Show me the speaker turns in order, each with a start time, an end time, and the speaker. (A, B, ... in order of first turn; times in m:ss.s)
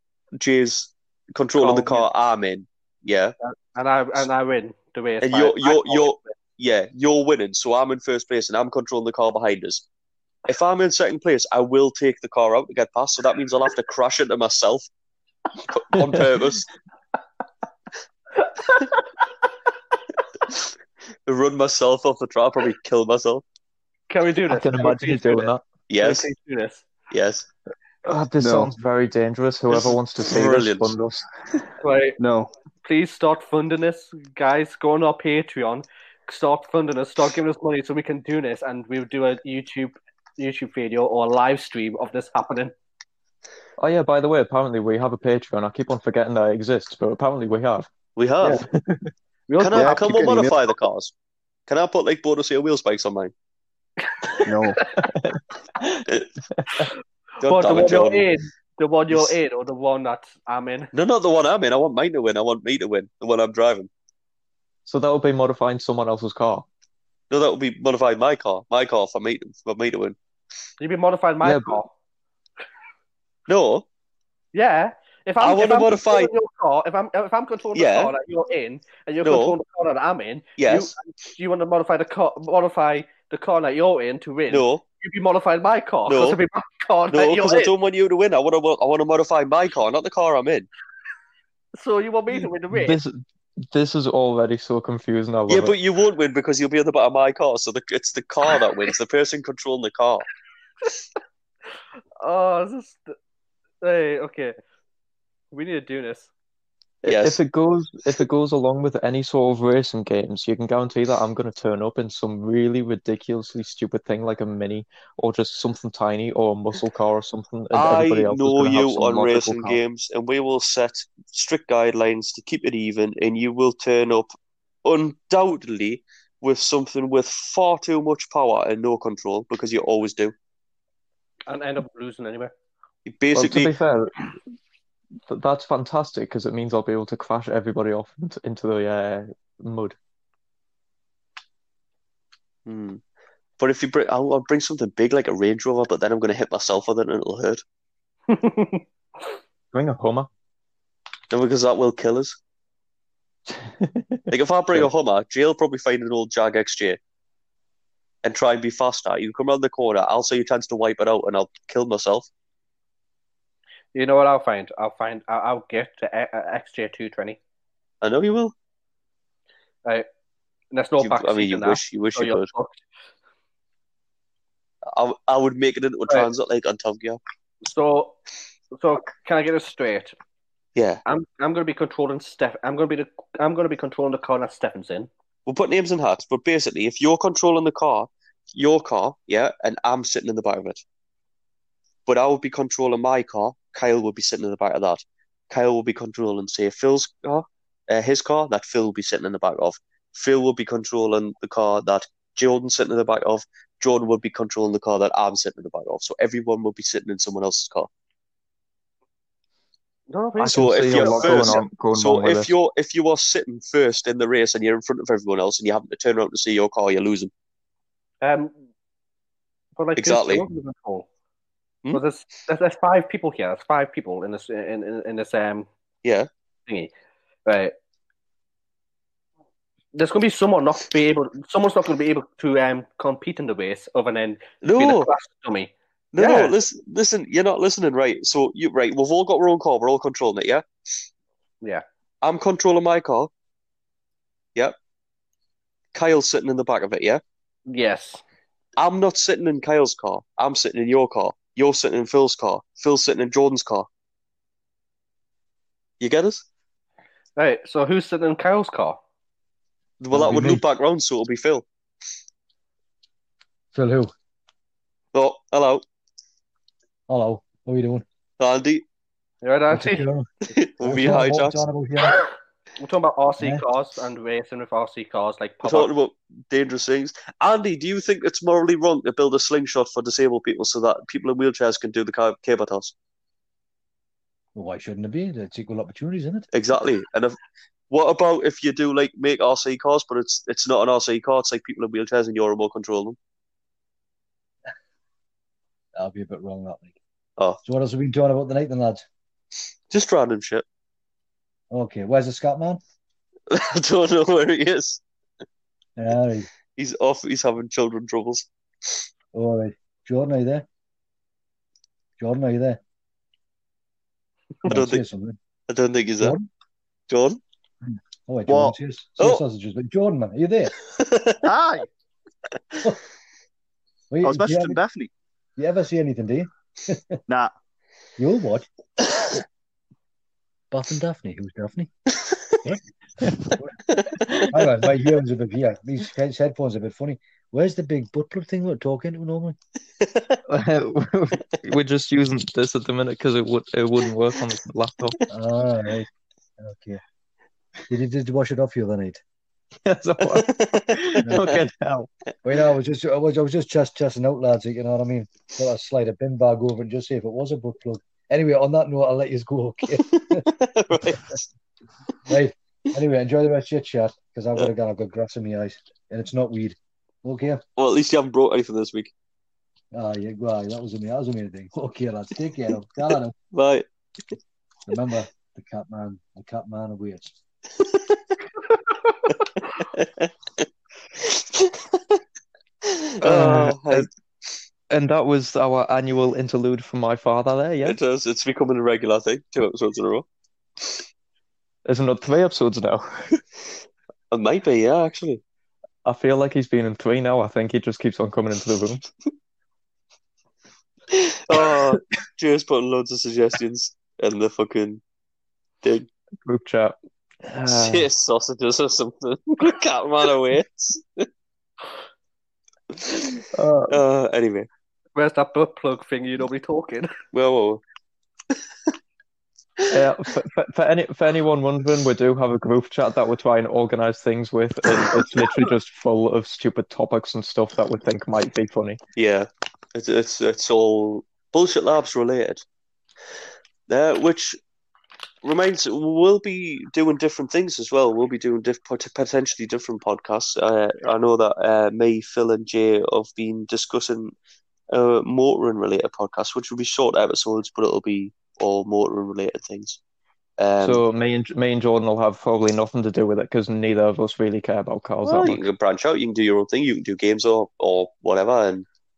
0:00.4-0:03.3 A
0:01.6-0:02.1 B
0:03.4-0:06.2 B
0:05.2-0:09.8 A
0:10.5-0:14.9 A
0:15.6-0:16.7 A
0:18.7-0:19.0 B
0:21.3-0:23.4 A
0:24.1-0:25.5 B
0:24.5-0:25.6 C
0:25.9-0:26.2 A
0:26.0-0:26.8 B
0:27.1-0:27.5 A
0:28.0-0:31.3 C
0:28.4-0:28.7 D
0:29.7-0:30.9 A
0:31.8-0:32.2 B
0:32.2-0:32.5 D
0:32.8-0:42.7 B
0:43.8-0:47.9 C
0:48.2-0:48.6 A
0:48.5-0:49.1 C
0:49.5-0:50.1 B
0:49.6-0:51.1 A
0:49.7-0:50.6 D
0:51.7-0:53.3 A
0:54.4-0:54.8 D
0:55.0-0:56.8 C
0:57.4-0:58.3 A
0:57.4-1:00.9 B
1:00.9-1:03.9 A
1:04.8-1:06.6 C
1:07.3-1:10.2 A
1:10.8-1:11.9 B
1:11.4-1:11.8 C
1:13.5-1:13.8 A
1:14.5-1:27.7 B
1:15.4-1:16.3 A
1:17.7-1:18.1 A
1:19.2-1:19.6 A
1:20.6-1:20.9 A
1:24.5-1:24.8 A
1:26.1-1:26.4 A
1:27.1-1:30.7 A
1:31.8-1:33.0 B
1:32.7-1:33.2 C
1:33.7-1:35.7 C
1:35.5-1:40.3 A
1:42.2-1:43.1 B
1:43.8-1:44.6 B
1:45.5-1:46.3 B
1:47.0-1:59.8 C
1:47.0-1:47.4 A
1:57.7-2:04.3 A
2:04.8-2:10.3 A
2:11.5-2:12.5 B
2:13.0-2:13.7 A
2:13.3-2:14.3 C
2:15.3-2:20.0 C
2:22.6-2:23.0 A
2:23.6-2:27.6 A
2:28.3-2:28.8 B
2:29.7-2:30.3 C
2:31.3-2:32.4 A
2:33.5-2:34.9 C
2:34.3-2:37.0 A
2:38.2-2:42.3 A
2:43.9-2:47.4 B
2:48.0-2:48.5 A
2:50.7-2:52.8 B
2:51.0-2:52.5 A
2:54.9-2:57.2 A
2:57.6-2:58.2 B
2:58.7-3:00.2 B
3:00.8-3:01.0 A
3:01.0-3:05.1 B
3:05.4-3:10.8 A
3:12.1-3:27.9 A
3:30.1-3:31.6 B
3:30.4-3:32.5 C
3:30.5-3:37.3 A
3:38.2-3:38.5 B
3:39.8-3:41.1 B
3:40.0-3:40.4 A
3:41.9-3:45.7 B
3:47.5-3:47.7 B
3:49.9-3:56.5 B
3:54.6-3:55.1 A
3:56.1-4:00.6 A
4:02.2-4:03.3 A
4:05.9-4:07.2 A
4:07.7-4:08.2 B
4:08.8-4:13.9 A
4:16.0-4:16.4 A
4:17.4-4:19.0 B
4:20.0-4:21.6 A
4:20.1-4:20.6 E
4:23.7-4:24.1 E
4:25.1-4:25.8 A
4:27.1-4:28.0 E
4:28.4-4:28.8 A
4:29.4-4:30.0 B
4:29.7-4:30.3 E
4:30.5-4:31.6 A
4:30.8-4:32.2 E
4:32.8-4:35.9 B
4:33.4-4:33.6 E
4:35.6-4:42.9 A
4:44.5-4:46.5 E
4:46.5-4:47.4 A
4:47.9-4:53.2 A
4:56.0-4:57.0 E
4:57.6-4:59.0 E
4:59.9-5:00.6 A
5:01.7-5:02.8 E
5:03.5-5:05.0 A
5:06.0-5:06.5 E
5:06.8-5:08.4 A
5:09.3-5:10.6 E
5:12.2-5:12.8 E
5:14.6-5:15.0 A
5:14.6-5:15.4 E
5:15.7-5:16.4 A
5:16.2-5:16.5 E
5:17.1-5:17.4 A
5:18.3-5:20.8 E
5:18.5-5:18.8 D
5:21.0-5:21.4 A
5:21.4-5:21.9 D
5:24.1-5:24.8 E
5:24.2-5:25.1 D
5:25.6-5:27.2 E
5:27.3-5:27.5 D
5:28.2-5:28.7 E
5:30.7-5:31.9 E
5:34.5-5:39.6 E
5:40.5-5:45.2 C
5:45.3-5:46.1 E
5:46.6-5:47.0 E
5:47.9-5:49.2 E
5:49.8-5:52.1 C
5:50.3-5:51.6 A
5:52.4-6:00.4 E
6:00.6-6:01.3 A
6:02.3-6:07.6 E
6:07.8-6:09.1 A
6:09.9-6:13.3 E
6:13.5-6:13.8 A
6:14.9-6:17.4 E
6:19.9-6:20.3 A
6:21.2-6:22.0 A
6:23.0-6:24.1 A
6:23.2-6:24.1 C
6:24.9-6:28.0 C
6:27.8-6:30.2 A
6:31.8-6:33.4 C
6:34.3-6:35.4 A
6:36.0-6:39.0 C
6:41.1-6:45.0 A
6:45.8-6:46.1 A
6:46.4-6:48.0 C
6:47.7-6:51.2 A
6:53.5-6:54.0 C
6:53.9-6:54.7 A
6:55.1-6:57.1 B
6:57.3-6:57.8 A
6:59.9-7:09.0 C
7:09.2-7:12.6 A
7:13.9-7:14.6 A
7:15.4-7:24.3 A
7:24.9-7:30.0 A
7:30.6-7:31.0 A
7:30.8-7:35.6 C
7:35.2-7:38.8 A